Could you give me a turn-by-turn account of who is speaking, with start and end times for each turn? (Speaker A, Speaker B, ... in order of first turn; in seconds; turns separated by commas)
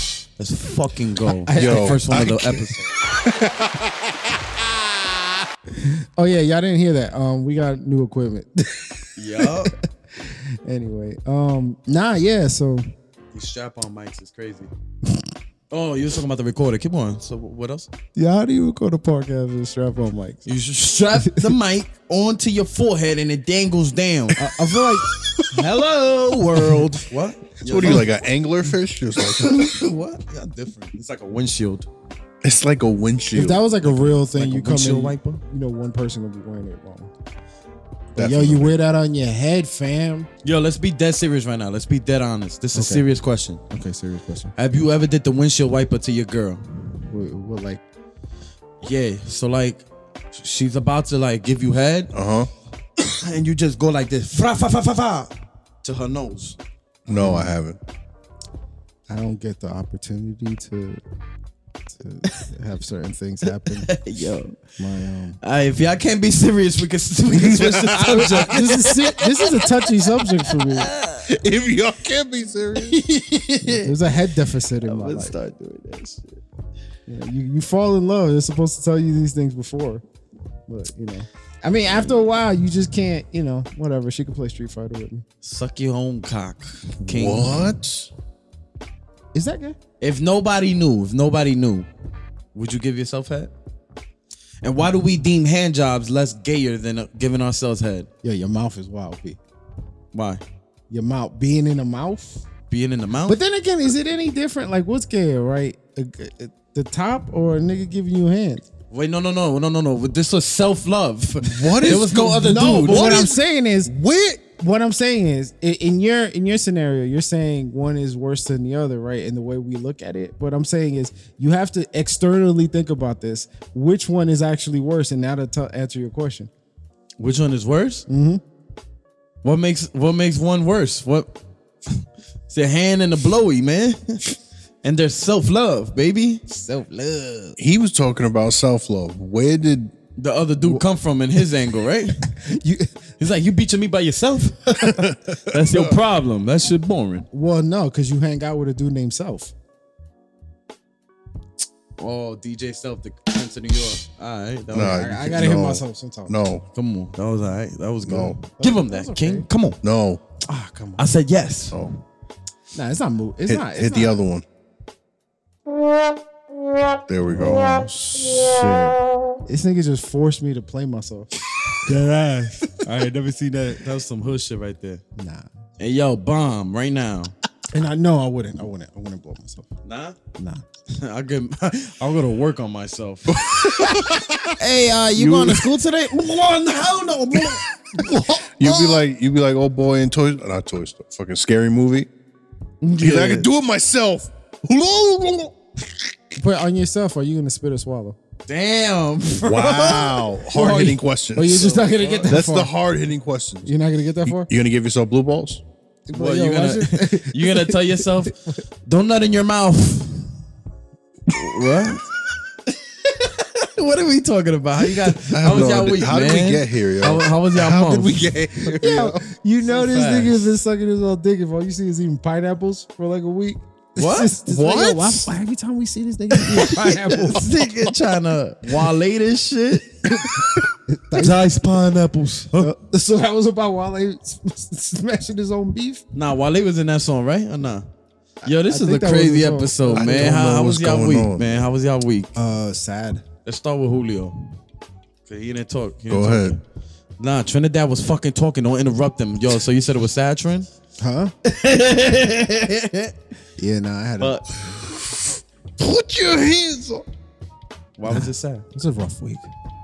Speaker A: 0.4-2.9, Speaker B: 1.2-2.1, Speaker C: 1.5-2.8, Speaker B: 3.2-3.9, Speaker B: 5.7-12.9, Speaker A: 9.2-9.7, Speaker A: 13.3-14.7, Speaker A: 15.7-17.9, Speaker B: 18.1-20.4, Speaker A: 20.4-24.4, Speaker B: 21.1-21.5, Speaker B: 24.4-25.1, Speaker A: 25.5-28.1, Speaker C: 27.6-29.7, Speaker B: 27.8-28.0, Speaker A: 29.2-31.9, Speaker C: 32.4-33.6, Speaker B: 33.3-37.1, Speaker A: 33.8-35.2, Speaker B: 38.1-40.3, Speaker C: 38.1-38.8, Speaker A: 40.4-43.6, Speaker B: 42.7-43.0, Speaker B: 43.7-44.5, Speaker A: 44.5-47.0, Speaker B: 47.1-47.8, Speaker A: 48.8-52.1, Speaker C: 52.1-52.5, Speaker A: 53.1-55.3, Speaker A: 55.8-56.6, Speaker C: 57.1-57.8, Speaker B: 57.1-57.5, Speaker B: 59.1-61.0, Speaker B: 61.9-63.9, Speaker A: 63.4-64.7, Speaker B: 64.8-65.4, Speaker A: 65.4-71.3, Speaker C: 67.3-68.6, Speaker B: 68.0-70.9, Speaker C: 71.3-73.0, Speaker A: 72.8-74.0, Speaker B: 73.7-75.3, Speaker A: 74.8-76.4, Speaker B: 77.1-80.0, Speaker B: 80.7-85.2, Speaker A: 85.4-87.7, Speaker C: 87.0-88.1, Speaker B: 89.3-89.8, Speaker A: 90.0-91.9, Speaker A: 92.5-93.5, Speaker A: 94.6-98.1, Speaker B: 98.2-99.4, Speaker A: 100.1-100.4, Speaker B: 100.9-102.5, Speaker A: 102.7-103.4, Speaker B: 103.3-108.6, Speaker A: 108.9-113.3, Speaker C: 111.4-114.4, Speaker B: 111.8-113.9, Speaker B: 114.6-126.5, Speaker A: 127.2-128.1, Speaker B: 128.1-128.4, Speaker A: 129.4-131.3, Speaker A: 132.5-136.4, Speaker B: 136.5-137.6, Speaker C: 137.6-139.9, Speaker A: 140.2-142.3, Speaker B: 142.4-142.9, Speaker A: 143.2-147.2, Speaker C: 144.7-146.0, Speaker B: 147.3-149.5, Speaker A: 152.0-155.2, Speaker C: 154.7-156.6, Speaker B: 154.8-156.3, Speaker A: 156.7-159.8, Speaker C: 158.0-158.4, Speaker B: 158.6-159.5, Speaker C: 159.8-160.2, Speaker B: 160.4-161.1, Speaker A: 161.0-161.9, Speaker B: 162.7-164.2, Speaker C: 163.5-164.4, Speaker C: 167.1-169.0, Speaker B: 169.5-171.3, Speaker A: 171.8-175.0, Speaker B: 175.2-175.5, Speaker A: 175.8-177.3, Speaker B: 177.7-179.7, Speaker A: 179.8-180.2, Speaker B: 180.4-180.6, Speaker A: 180.9-183.4, Speaker C: 183.3-184.6, Speaker B: 183.8-186.1, Speaker C: 185.2-185.6, Speaker A: 185.4-187.6, Speaker B: 187.9-189.0, Speaker C: 188.5-192.1, Speaker A: 192.8-193.5, Speaker C: 193.0-196.4, Speaker B: 196.4-198.2, Speaker A: 198.5-200.9, Speaker C: 199.3-203.7, Speaker B: 200.6-202.7, Speaker A: 201.5-202.4, Speaker B: 203.7-204.5, Speaker C: 204.2-205.6, Speaker B: 206.1-208.6, Speaker A: 206.1-210.3, Speaker A: 211.3-212.1, Speaker A: 213.0-218.3, Speaker C: 215.2-219.2, Speaker B: 218.6-227.6, Speaker A: 219.7-220.5, Speaker A: 224.0-224.4, Speaker C: 224.5-225.3, Speaker A: 226.4-230.0, Speaker B: 230.1-231.5, Speaker A: 231.1-232.7, Speaker B: 232.6-236.0, Speaker A: 236.1-237.9, Speaker B: 238.4-240.3, Speaker A: 238.4-242.3, Speaker C: 239.9-241.7, Speaker B: 242.3-243.2, Speaker A: 243.4-244.5, Speaker A: 245.2-246.6, Speaker C: 246.1-246.6, Speaker A: 247.2-250.7, Speaker B: 251.0-251.3, Speaker A: 251.4-253.1, Speaker B: 253.6-254.4, Speaker A: 254.2-254.4, Speaker C: 254.7-257.0, Speaker A: 258.0-258.6, Speaker B: 258.1-259.5